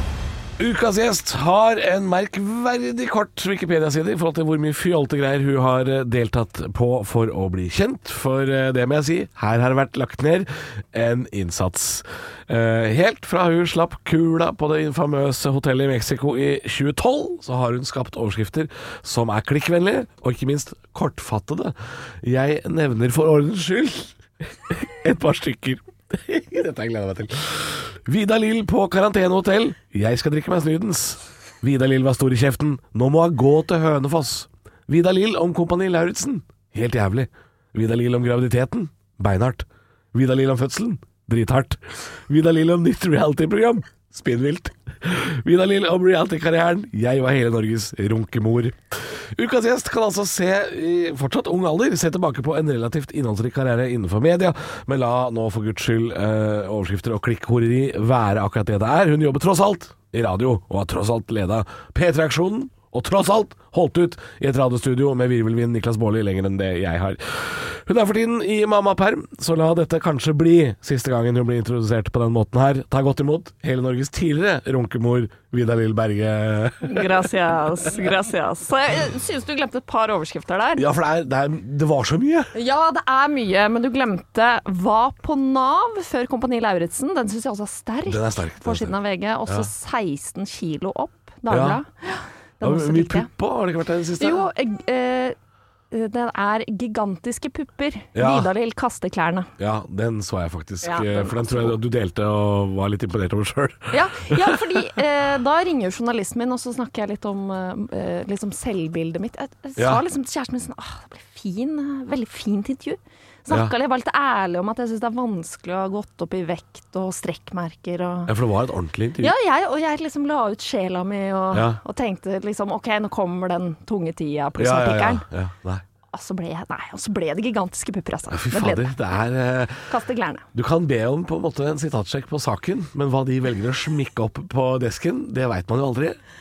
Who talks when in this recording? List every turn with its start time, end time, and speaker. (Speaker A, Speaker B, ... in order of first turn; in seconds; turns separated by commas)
Speaker A: 0.6-77.3, Speaker B: 76.8-80.9, Speaker A: 80.8-82.5, Speaker B: 82.5-93.3, Speaker A: 88.1-88.9, Speaker A: 91.5-91.8, Speaker A: 92.6-94.5, Speaker B: 94.2-95.4, Speaker B: 95.9-99.5, Speaker A: 98.1-98.5, Speaker A: 99.6-104.8, Speaker B: 100.8-101.8, Speaker B: 103.9-118.3, Speaker A: 109.8-110.0, Speaker A: 118.3-119.3, Speaker B: 119.2-125.2, Speaker A: 121.5-121.8, Speaker A: 124.6-125.8, Speaker B: 126.1-128.9, Speaker A: 128.3-129.9, Speaker B: 129.9-130.4, Speaker A: 130.5-136.2